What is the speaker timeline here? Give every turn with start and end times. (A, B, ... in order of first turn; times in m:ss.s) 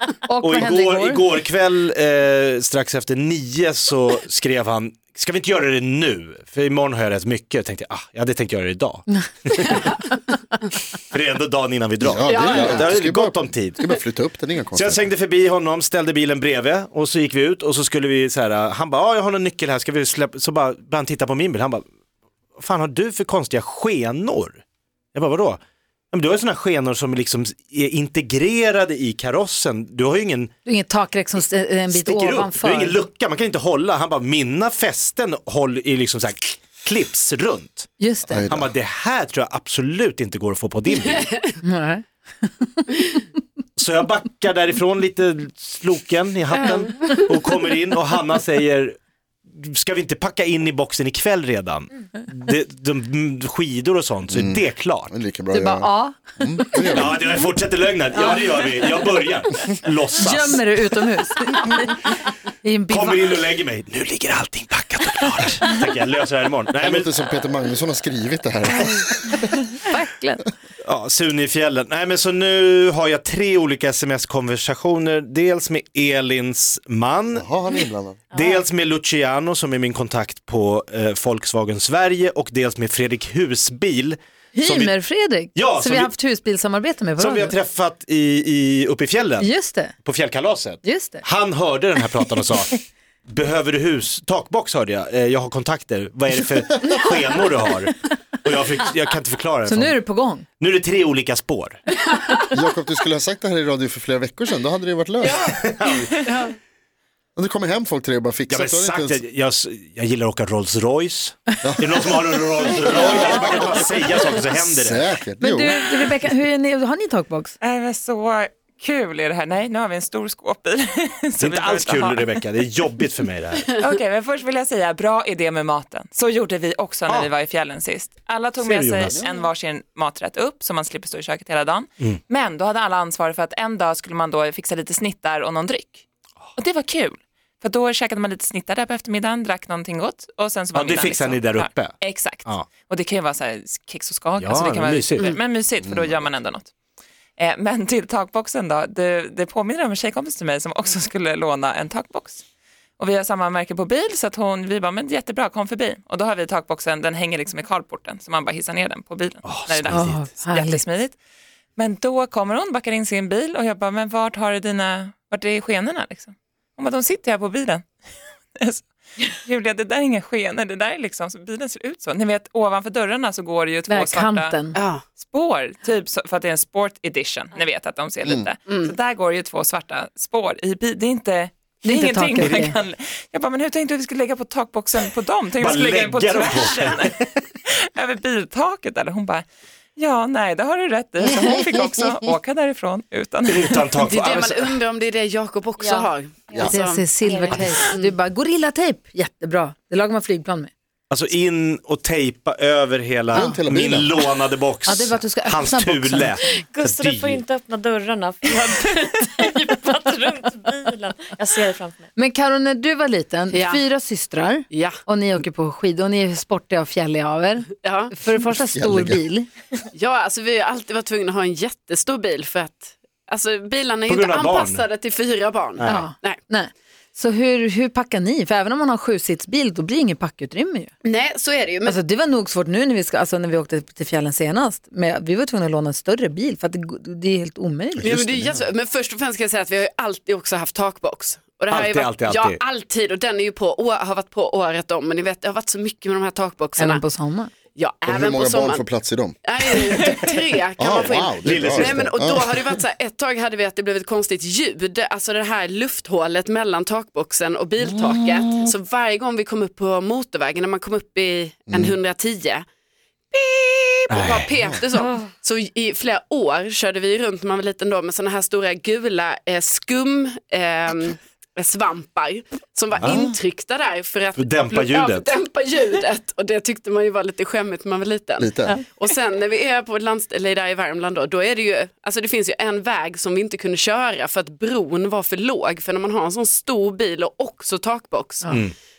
0:00.2-0:01.2 A
0:00.4-0:09.7 B
0:09.6-0:10.0 C
0:11.0-0:13.8 B
0:12.0-0:15.1 D
0:12.2-0:12.9 C
0:14.8-0:21.8 B
0:22.6-0:24.6 B
0:25.1-0:25.6 B
0:26.1-0:30.5 B
0:30.6-0:33.0 A
0:31.9-0:37.9 B
0:38.0-0:38.4 A
0:38.3-0:38.7 D
0:38.5-0:41.3 B
0:40.9-0:41.5 C
0:41.6-0:43.0 A
0:43.8-0:55.1 B
0:46.5-0:47.6 C
0:54.3-0:57.2 D
0:55.5-0:56.8 A
0:56.9-1:00.9 B
0:58.1-0:58.7 A
1:00.2-1:03.4 A
1:02.9-1:07.1 B
1:06.8-1:09.4 D
1:09.8-1:10.5 A
1:10.8-1:17.5 B
1:17.3-1:18.3 D
1:18.3-1:25.0 B
1:24.5-1:27.5 A
1:25.5-1:26.1 B
1:27.2-1:40.0 B
1:29.4-1:29.9 A
1:30.8-1:31.2 A
1:39.6-1:40.4 A
1:40.6-1:41.8 B
1:42.5-1:45.5 D
1:45.3-1:46.3 B
1:47.4-1:49.2 D
1:48.5-1:55.0 B
1:51.6-1:52.0 D
1:52.8-1:53.8 D
1:54.4-1:56.0 D
1:55.4-1:57.5 A
1:57.6-2:02.4 E
2:01.4-2:03.6 B
2:03.7-2:16.0 E
2:08.6-2:09.2 B
2:16.6-2:26.7 E
2:20.7-2:22.7 B
2:24.4-2:25.4 B
2:25.8-2:26.2 D
2:27.4-2:32.4 E
2:33.0-2:41.2 E
2:39.4-2:40.3 B
2:39.9-2:40.8 A
2:41.8-2:47.8 E
2:48.6-2:54.5 E
2:53.9-2:54.8 A
2:54.7-2:55.0 C
2:55.2-3:09.4 E
3:01.8-3:02.8 A
3:05.6-3:07.4 B
3:10.0-3:14.0 E
3:13.4-3:14.8 B
3:14.0-3:17.0 C
3:15.8-3:18.0 F
3:16.6-3:20.7 A
3:17.7-3:18.1 C
3:21.1-3:27.4 B
3:23.3-3:24.1 D
3:24.8-3:26.4 A
3:26.5-3:32.0 F
3:32.1-3:39.5 A
3:33.5-3:33.8 C
3:34.7-3:35.0 C
3:37.8-3:38.1 C
3:38.7-3:39.3 D
3:39.9-3:46.4 C
3:44.1-3:44.8 B
3:45.8-3:46.1 B
3:45.8-3:50.9 A
3:51.0-3:52.0 C
3:51.8-3:58.1 A
3:58.0-3:58.7 D
3:58.0-4:07.0 C
4:01.7-4:02.6 B
4:06.8-4:07.5 A
4:07.8-4:08.8 C
4:08.1-4:09.4 D
4:09.4-4:22.6 C
4:10.8-4:12.5 D
4:11.4-4:12.5 B
4:17.9-4:18.7 D
4:21.7-4:22.0 D
4:23.3-4:48.6 C
4:24.1-4:24.5 B
4:25.0-4:25.3 F
4:33.0-4:33.2 B
4:34.4-4:35.3 B
4:38.4-4:38.8 D
4:48.5-4:48.7 B